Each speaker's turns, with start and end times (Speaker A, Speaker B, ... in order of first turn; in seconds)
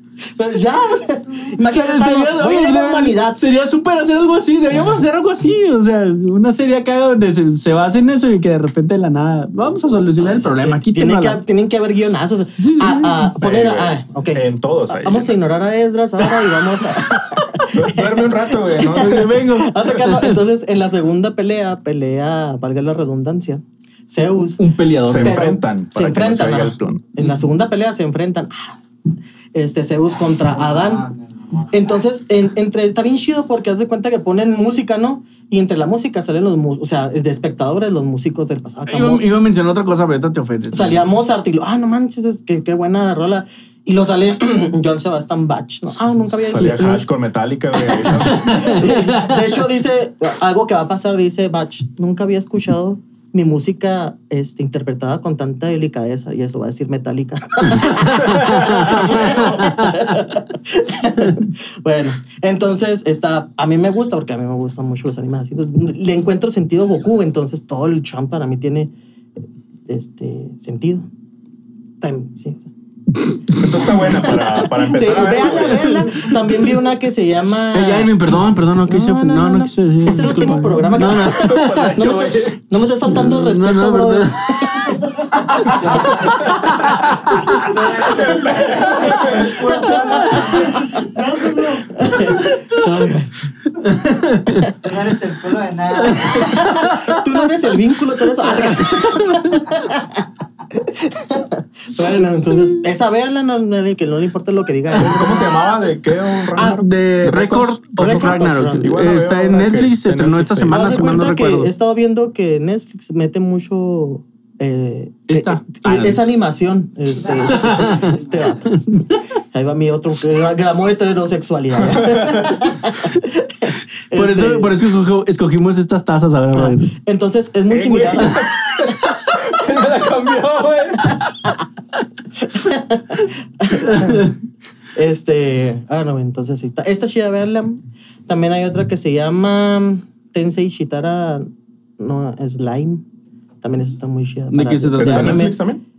Speaker A: 0.3-3.4, 4.7-5.0, 10.4-24.6, 25.2-28.8, 29.5-31.1, 31.7-39.2, 40.7-47.1, 48.0-68.9, 69.9-71.1, 72.0-72.7, 74.0-78.3, 78.8-85.1, 85.9-86.2, 88.9-91.0, 91.6-93.3, 96.4-105.7, 106.5-106.8, 108.0-108.9, 110.7-118.7, 119.5-124.7, 126.5-128.4, 132.4-134.3, 134.9-143.0, 143.6-145.6
Speaker B: 1.6-11.4, 12.6-13.2, 18.9-20.4, 24.6-25.4, 38.9-41.0, 48.3-49.3, 57.8-59.9, 77.7-82.0, 83.1-84.8, 93.8-94.7, 96.2-97.2, 98.7-99.6, 106.6-111.7, 115.3-116.2, 117.5-118.1, 118.7-119.2, 124.1-126.9, 133.8-134.3, 144.5-145.5
Speaker C: 13.4-15.4, 17.7-19.4, 25.1-27.1, 46.4-48.8, 73.5-76.4, 81.0-82.6, 88.1-89.6, 105.0-111.0, 121.9-122.6, 127.7-131.3, 145.0-145.8
Speaker D: 30.5-31.8, 85.5-92.1, 94.7-96.7, 117.1-118.7